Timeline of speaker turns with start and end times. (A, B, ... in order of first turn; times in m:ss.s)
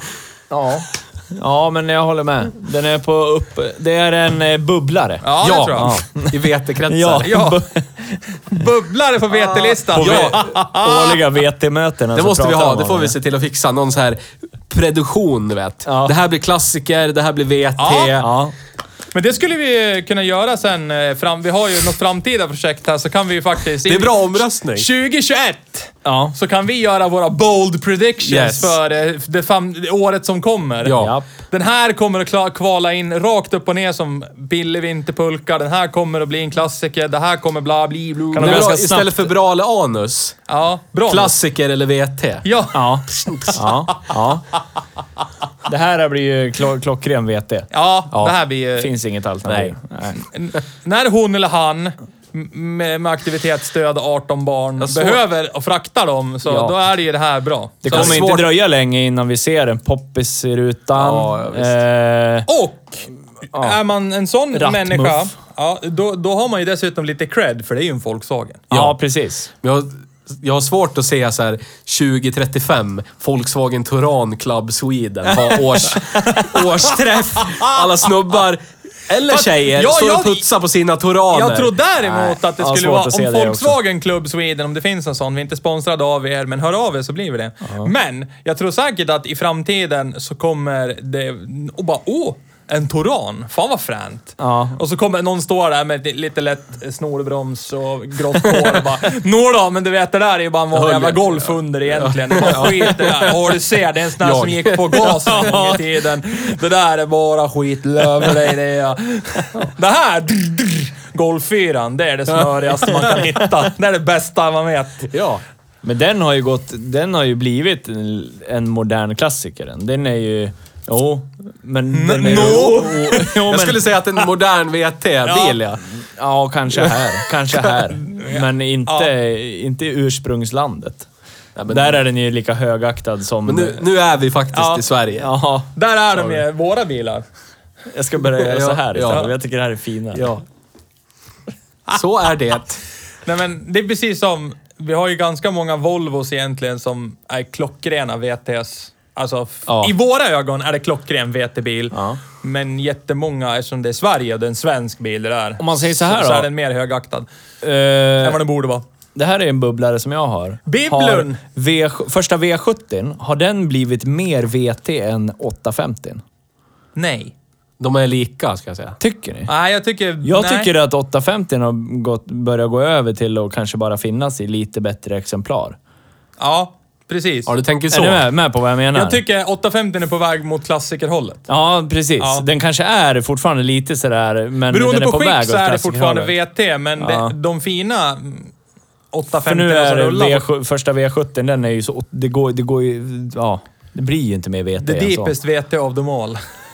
0:00.5-0:08.2 A
0:05.2-0:06.0 B
0:05.4-0:07.3 C
0:07.2-0:07.6 B
0:08.5-0:11.2 B
0:09.4-0:13.2 A
0:09.9-0:10.5 C
0:12.2-0:18.3 C
0:15.9-0:16.2 A
0:17.8-0:18.2 B
0:18.2-0:18.5 A
0:19.1-0:38.7 B
0:23.8-0:24.9 C
0:26.0-0:26.4 A
0:28.2-0:28.8 C
0:30.8-0:31.1 C
0:31.0-0:31.3 A
0:38.3-0:40.4 C
0:38.4-0:39.3 A
0:40.5-0:41.3 B
0:41.1-0:42.5 C
0:42.4-0:43.0 B
0:42.7-0:44.4 A
0:43.1-0:43.7 C
0:45.6-0:47.7 A
0:47.7-0:48.9 B
0:48.8-0:50.2 A
0:49.5-0:49.8 C
0:50.3-0:58.3 B
0:54.8-0:55.2 C
0:56.5-0:56.8 A
0:57.8-1:02.5 A
0:57.9-0:58.5 C
1:01.0-1:01.8 C
1:02.5-1:08.6 B
1:03.5-1:03.8 A
1:04.5-1:05.3 A
1:08.7-1:09.0 C
1:08.7-1:09.5 A
1:09.6-1:21.7 C
1:15.5-1:18.1 B
1:19.3-1:20.5 B
1:21.3-1:55.1 B
1:22.0-1:23.8 A
1:27.6-1:27.9 A
1:34.4-1:34.8 A
1:40.7-1:43.4 C
1:44.2-1:45.8 C
1:45.3-1:45.8 A
1:55.1-1:55.4 C
1:55.8-2:03.9 A
2:01.9-2:03.4 B
2:02.3-2:05.9 C
2:05.3-2:05.6 B
2:06.0-2:11.1 A
2:08.2-2:09.1 B
2:11.6-2:12.0 C
2:11.7-2:13.9 A
2:13.4-2:15.3 C
2:14.5-2:14.8 B
2:15.2-2:15.7 A
2:15.8-2:17.2 B
2:17.9-2:20.3 A
2:18.4-2:19.3 C
2:20.2-2:20.4 C
2:21.9-2:22.8 C
2:23.2-2:37.3 B
2:29.7-2:29.9 C
2:31.9-2:32.2 A
2:35.6-2:36.5 A
2:37.6-2:38.4 A
2:38.2-2:38.8 B
2:39.2-2:46.2 A
2:40.7-2:41.4 B
2:47.0-2:47.3 B
2:47.8-2:49.0 C
2:49.0-2:49.5 A
2:49.5-2:50.7 B
2:50.2-2:55.8 A
2:56.4-2:57.5 B
2:57.5-2:58.3 C
2:57.9-2:59.2 A
2:58.9-3:01.5 B
3:01.5-3:06.4 A
3:02.2-3:02.4 B
3:04.7-3:08.5 B
3:07.0-3:07.4 A
3:09.1-3:10.4 B
3:09.4-3:15.3 A
3:14.8-3:16.4 B